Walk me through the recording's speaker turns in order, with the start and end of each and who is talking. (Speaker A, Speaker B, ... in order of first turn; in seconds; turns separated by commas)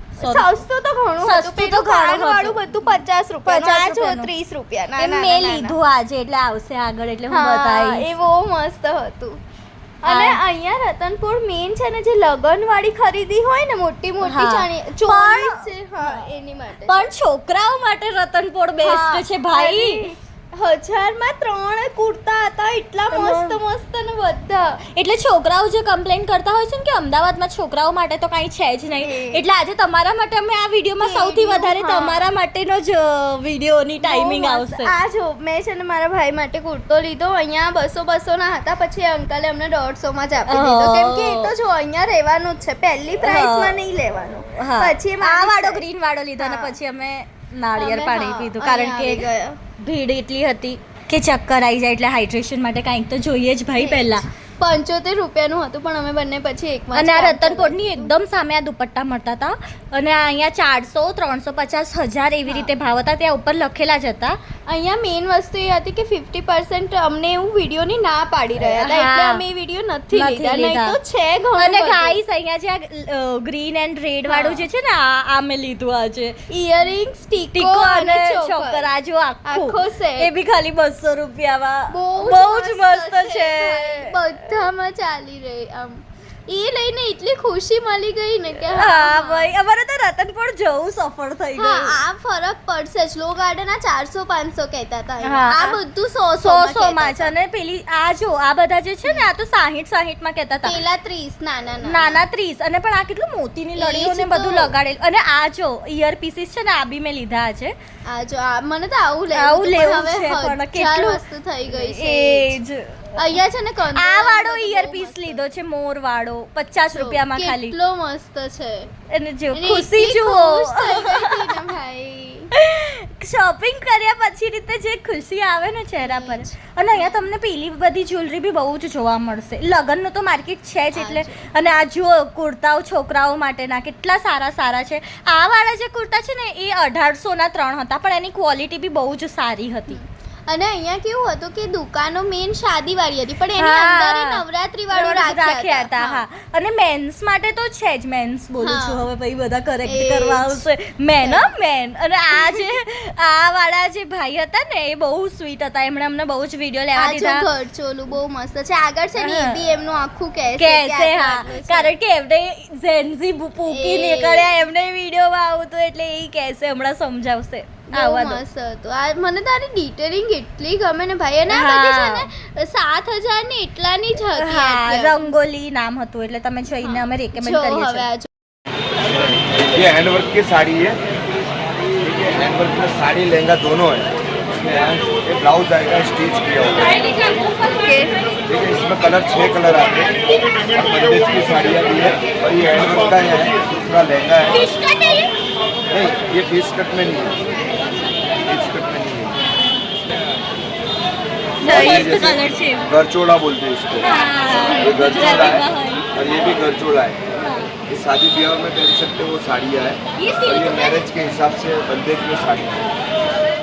Speaker A: 0.2-5.8, Speaker B: 0.2-0.5, Speaker B: 1.2-2.6, Speaker B: 3.5-4.3, Speaker B: 5.0-8.1, Speaker A: 7.3-9.4, Speaker A: 10.0-17.1, Speaker B: 10.1-10.4, Speaker B: 14.2-16.2, Speaker B: 16.9-20.1, Speaker A: 18.8-24.8, Speaker B: 23.1-23.6, Speaker B: 24.9-34.9, Speaker A: 29.0-29.4, Speaker A: 31.0-32.3, Speaker A: 34.0-45.8, Speaker B: 40.5-41.5, Speaker B: 43.2-43.7, Speaker B: 44.6-49.2, Speaker A: 46.4-46.8, Speaker A: 47.8-49.6, Speaker B: 49.8-54.3, Speaker A: 53.8-58.1, Speaker B: 57.0-64.4, Speaker A: 62.5-62.7, Speaker A: 64.7-72.2, Speaker B: 68.6-69.4, Speaker B: 70.1-71.0, Speaker B: 71.6-76.4, Speaker A: 74.3-74.7, Speaker A: 76.5-78.9, Speaker B: 77.5-84.2, Speaker A: 79.5-80.3, Speaker A: 81.9-89.5, Speaker B: 88.7-92.0, Speaker A: 91.6-97.3, Speaker B: 95.2-95.8, Speaker B: 96.4-100.7, Speaker A: 100.6-102.2, Speaker B: 101.8-107.8, Speaker A: 103.8-104.7, Speaker A: 108.1-112.5, Speaker B: 109.3-113.2, Speaker A: 113.2-115.4, Speaker B: 114.0-117.8, Speaker A: 116.9-118.9, Speaker B: 119.1-121.6, Speaker A: 119.5-122.5, Speaker B: 122.5-140.0, Speaker A: 126.0-127.2, Speaker A: 130.9-131.7, Speaker A: 139.9-146.2, Speaker B: 143.6-144.4, Speaker B: 144.9-157.4, Speaker A: 148.6-149.1, Speaker A: 149.8-150.7, Speaker A: 151.2-151.5, Speaker A: 152.3-152.6, Speaker A: 157.0-161.9, Speaker B: 159.2-159.6, Speaker B: 160.6-168.4, Speaker A: 163.7-164.6, Speaker A: 167.9-175.2, Speaker B: 171.5-172.3, Speaker B: 174.4-178.1, Speaker A: 176.8-178.3, Speaker C: 179.7-181.0, Speaker C: 182.1-187.0, Speaker A: 187.4-188.1, Speaker C: 188.5-190.1, Speaker C: 190.7-194.6, Speaker B: 194.4-195.3, Speaker C: 195.9-197.4, Speaker C: 198.4-199.4, Speaker B: 201.6-202.9, Speaker C: 201.6-204.1, Speaker B: 204.0-206.1, Speaker C: 204.8-207.2, Speaker B: 207.4-207.7, Speaker C: 207.9-212.9, Speaker B: 210.2-211.1